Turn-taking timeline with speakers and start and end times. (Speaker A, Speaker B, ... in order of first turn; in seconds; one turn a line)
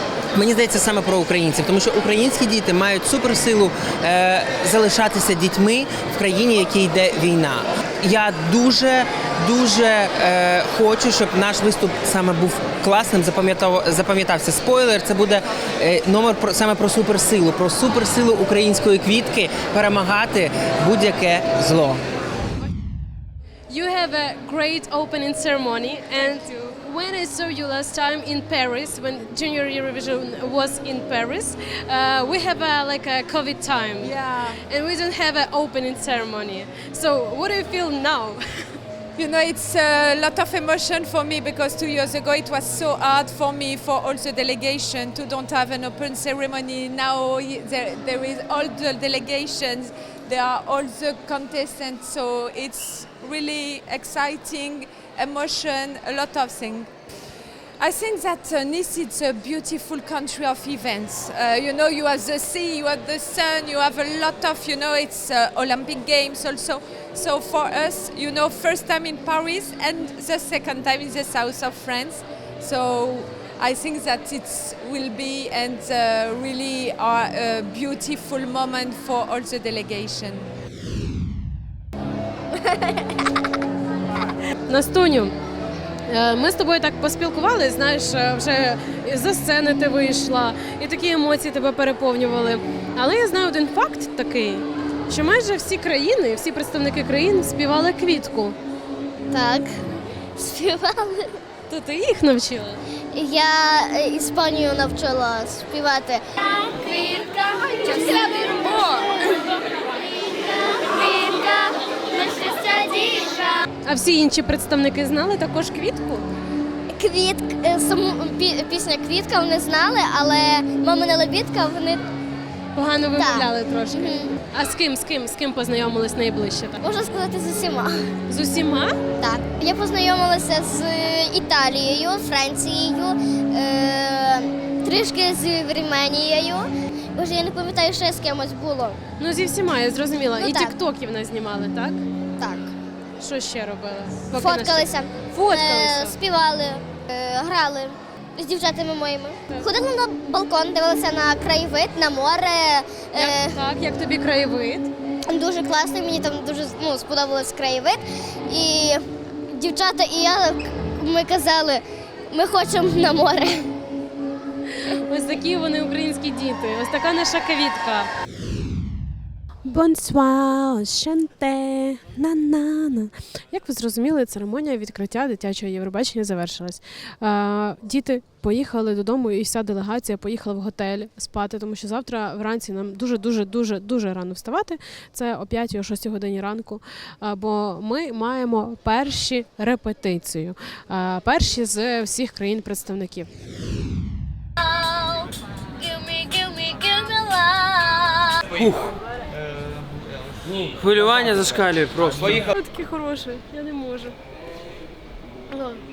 Speaker A: 0.3-22.0
Speaker B: 23.7-34.1
Speaker C: 34.0-34.6
Speaker B: 34.6-38.8
Speaker C: 39.1-56.9
Speaker C: 57.8-80.5
Speaker B: 84.7-85.3
Speaker B: 86.1-98.6
Speaker D: 99.3-99.7
Speaker D: 100.4-101.3
Speaker B: 101.7-102.8
Speaker D: 103.1-106.2
Speaker D: 110.5-111.1
Speaker D: 112.5-112.9
Speaker B: 113.8-116.2
Speaker D: 116.9-122.0
Speaker B: 122.7-126.8
Speaker D: 123.2-124.3
Speaker D: 126.8-128.1
Speaker B: 128.3-128.9
Speaker D: 129.2-139.0
Speaker B: 139.2-142.0
Speaker D: 140.4-140.7
Speaker D: 142.4-142.7
Speaker B: 143.2-146.2
Speaker D: 144.3-153.6
Speaker B: 153.1-154.9
Speaker D: 155.3-163.7
Speaker B: 164.8-168.1
Speaker B: 169.6-193.3
Speaker A: 198.6-198.8
Speaker A: 200.8-202.4
Speaker B: 202.5-204.1